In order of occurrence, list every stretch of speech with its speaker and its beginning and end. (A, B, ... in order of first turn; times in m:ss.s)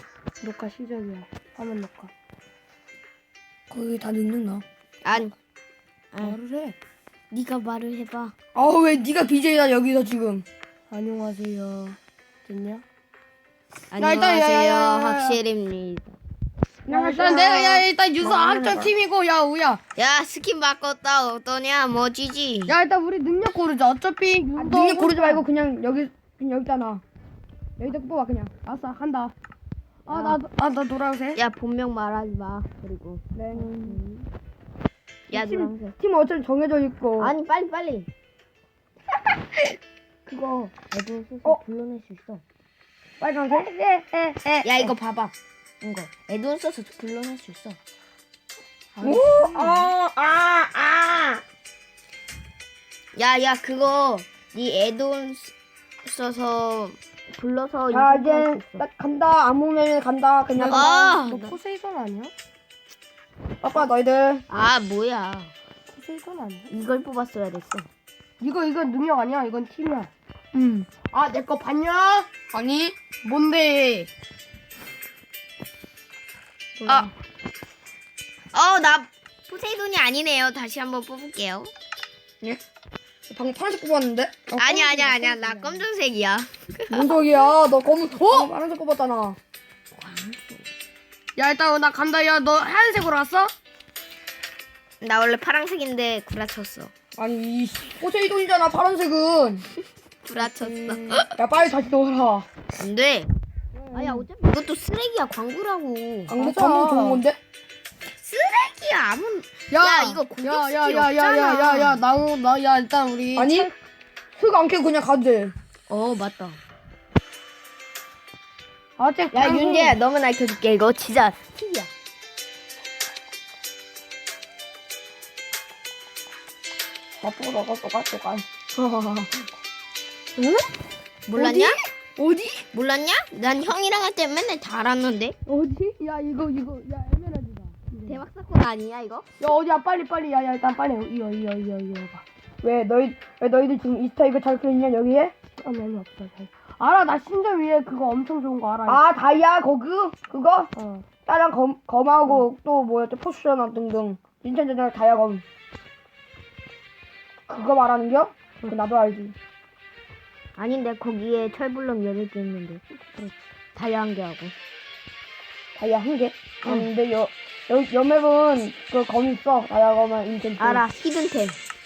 0:00.4-0:02.1 A
0:03.7-0:04.6 B
0:05.0-0:05.3 C
0:06.1-0:06.4 C
0:06.2-0:06.8 A
0:07.3-0:08.3 C
0:08.5-0:10.4 B
0:10.9-0:12.8 A
0:13.9-0:16.2 C
0:14.0-0:15.4 A
0:16.9-0:17.8 B
0:16.9-0:19.8 A
0:18.2-0:18.9 C
0:20.0-0:22.8 C
0:22.7-0:25.4 A
0:24.6-0:27.0 B
0:27.8-0:28.5 B
0:28.6-0:29.3 A
0:30.0-0:31.4 A
0:30.1-0:30.4 C
0:31.3-0:34.3 C
0:33.3-0:34.0 B
0:35.3-0:36.0 C
0:35.3-0:37.3 B
0:37.2-0:38.1 C
0:40.3-0:42.4 C
0:43.2-0:43.7 B
0:43.5-0:45.0 A
0:44.6-0:47.8 C
0:49.0-0:49.9 A
0:49.0-0:49.9 B
0:49.0-0:51.4 C
0:53.2-0:55.5 C
0:56.0-0:58.8 C
0:57.9-1:00.9 B
1:00.5-1:02.3 A
1:00.7-1:01.6 C
1:03.6-1:04.4 B
1:04.5-1:05.5 C
1:05.9-1:06.7 A
1:06.7-1:07.9 C
1:08.4-1:10.1 A
1:10.5-1:10.9 B
1:11.0-1:12.3 A
1:12.5-1:13.0 B
1:13.2-1:14.1 A
1:16.8-1:17.1 B
1:18.5-1:21.7 C
1:23.3-1:24.8 B
1:24.6-1:27.4 C
1:24.6-1:25.9 A
1:26.9-1:29.4 B
1:28.1-1:28.5 A
1:29.9-1:30.7 C
1:31.4-1:33.5 A
1:35.0-1:36.9 C
1:37.2-1:39.7 B
1:40.2-1:41.3 C
1:40.4-1:42.5 B
1:42.8-1:43.3 C
1:43.8-1:44.2 B
1:43.9-1:46.3 C
1:46.3-1:47.4 B
1:46.3-1:47.2 A
1:48.2-1:52.0 C
1:49.7-1:53.8 A
1:53.3-1:53.7 B
1:54.3-1:55.6 B
1:55.9-1:56.6 C
1:59.0-2:00.0 A
1:59.3-2:01.9 C
2:07.2-2:09.4 B
2:10.4-2:10.7 A
2:11.3-2:11.8 C
2:11.3-2:12.7 B
2:12.7-2:15.4 C
2:15.5-2:18.2 A
2:18.1-2:19.3 C
2:19.4-2:22.2 A
2:22.6-2:25.3 B
2:25.6-2:29.0 A
2:28.8-2:30.7 B
2:30.7-2:31.1 A
2:31.2-2:35.4 B
2:37.5-2:39.4 B
2:40.6-2:42.8 C
2:43.0-2:43.3 A
2:43.8-2:44.5 C
2:45.8-2:50.8 B
2:50.6-2:51.6 C